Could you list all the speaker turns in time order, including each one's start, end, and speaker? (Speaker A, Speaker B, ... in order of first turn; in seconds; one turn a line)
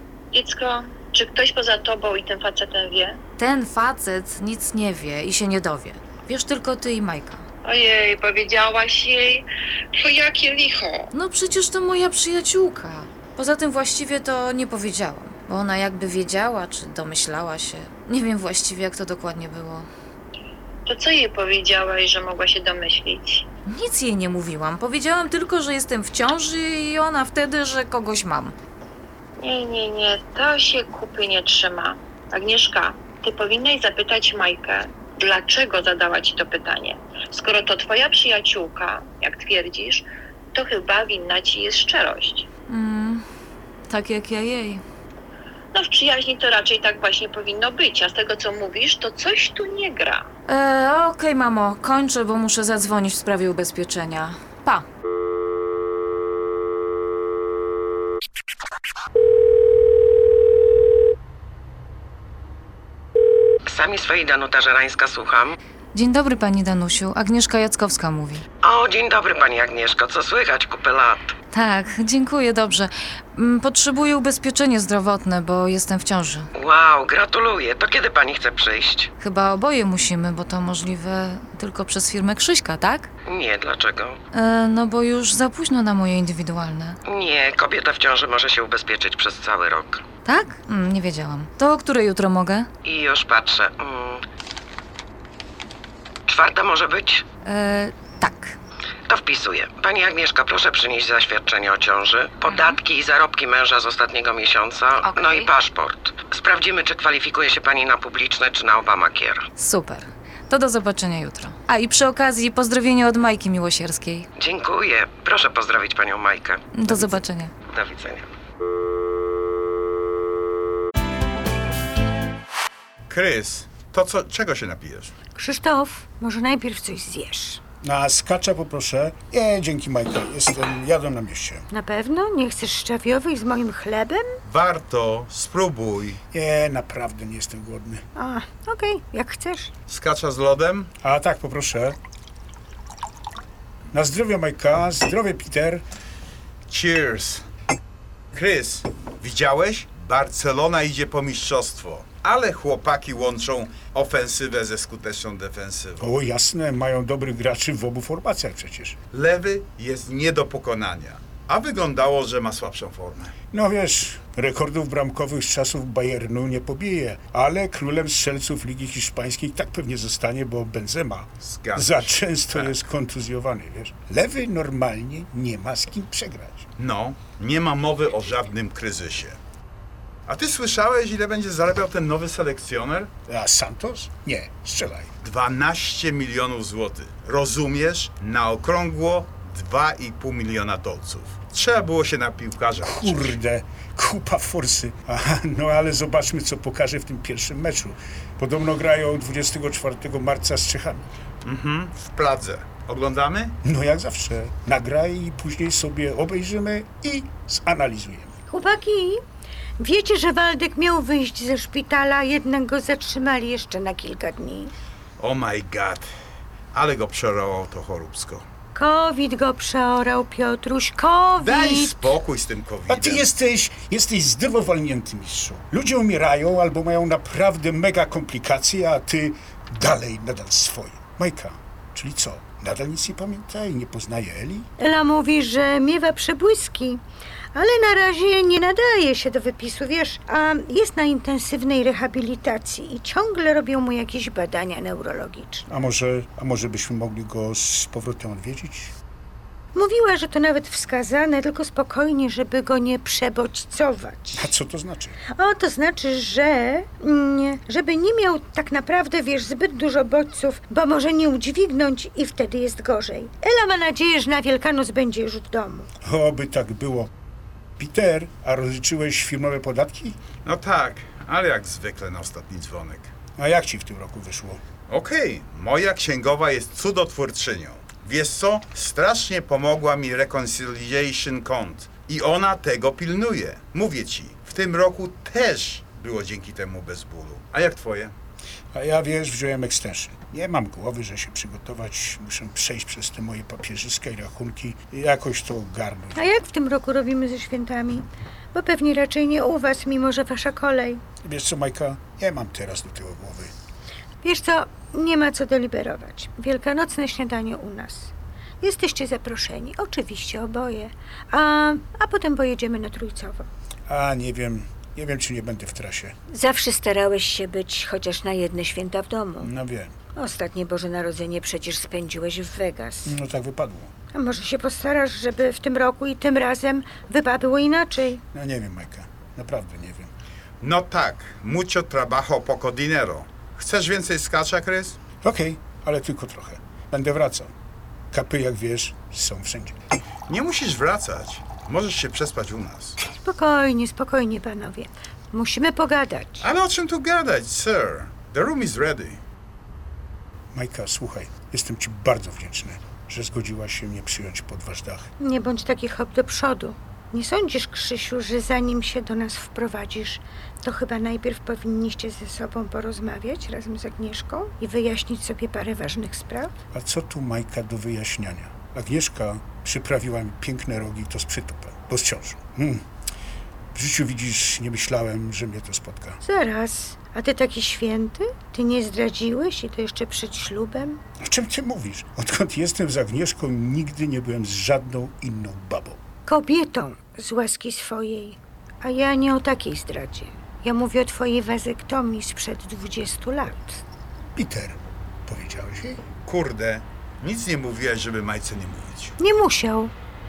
Speaker A: 0.3-3.2
Speaker B: 3.4-7.4
Speaker A: 7.6-11.1
Speaker B: 11.1-19.9
Speaker A: 20.9-23.4
Speaker B: 23.7-28.5
Speaker A: 29.4-42.5
Speaker B: 42.7-43.2
Speaker B: 43.9-44.8
Speaker A: 45.7-50.2
Speaker B: 50.5-54.8
Speaker C: 63.6-65.6
Speaker B: 65.9-68.4
Speaker C: 68.6-71.3
Speaker B: 71.5-76.5
Speaker C: 76.5-79.1
Speaker B: 79.2-83.1
Speaker C: 83.2-84.2
Speaker B: 84.3-87.0
Speaker C: 87.1-90.0
Speaker B: 90.2-92.7
Speaker C: 92.8-94.2
Speaker C: 96.3-97.2
Speaker B: 97.4-98.6
Speaker C: 99.1-109.4
Speaker B: 109.5-114.3
Speaker C: 114.4-116.6
Speaker B: 116.7-117.5
Speaker C: 117.7-118.3
Speaker D: 123.1-125.1
Speaker E: 125.3-127.6
Speaker F: 127.8-131.7
Speaker E: 131.7-134.2
Speaker D: 134.4-136.2
Speaker F: 136.3-138.0
Speaker E: 138.2-139.7
Speaker D: 139.9-140.9
Speaker F: 141.0-142.0
Speaker F: 143.9-145.8
Speaker D: 146.7-147.4
Speaker D: 148.3-156.1
Speaker F: 156.0-159.0
Speaker D: 159.1-163.3
Speaker F: 163.5-176.7
Speaker D: 171.4-172.8
Speaker D: 176.8-179.4
Speaker D: 180.2-183.1
Speaker F: 183.3-185.1
Speaker D: 185.2-193.4
Speaker F: 192.8-201.0
Speaker D: 201.4-203.6
Speaker F: 203.6-208.3
Speaker E: 208.5-209.2
Speaker E: 209.8-214.7
Speaker D: 215.2-216.1
Speaker D: 216.7-218.4
Speaker E: 218.7-222.2
Speaker D: 221.4-223.3
Speaker F: 222.9-234.7
Speaker E: 234.8-237.0
Speaker E: 237.5-245.6
Speaker F: 245.7-248.9
Speaker E: 249.7-254.5
Speaker F: 254.3-255.2
Speaker E: 255.3-265.9
Speaker F: 266.0-267.1
Speaker F: 267.8-270.2
Speaker D: 270.4-273.1
Speaker F: 273.4-274.6
Speaker D: 274.9-288.1
Speaker F: 288.7-296.2
Speaker E: 296.1-301.0
Speaker F: 301.2-303.5
Speaker E: 304.2-313.4
Speaker F: 313.9-316.1
Speaker E: 316.3-319.5
Speaker F: 319.4-319.9
Speaker E: 320.1-323.1
Speaker F: 323.0-323.9
Speaker E: 324.1-328.2
Speaker F: 328.3-330.1
Speaker D: 330.6-335.0
Speaker F: 335.2-337.5
Speaker F: 338.1-339.8
Speaker D: 340.3-343.0
Speaker E: 343.0-346.4
Speaker D: 346.4-349.2
Speaker F: 350.5-355.1
Speaker E: 355.2-366.5
Speaker F: 366.7-372.8
Speaker F: 373.7-376.2
Speaker E: 376.2-381.0
Speaker F: 381.2-386.0
Speaker E: 386.2-393.8
Speaker F: 394.3-396.0
Speaker D: 396.2-399.1
Speaker E: 399.2-399.9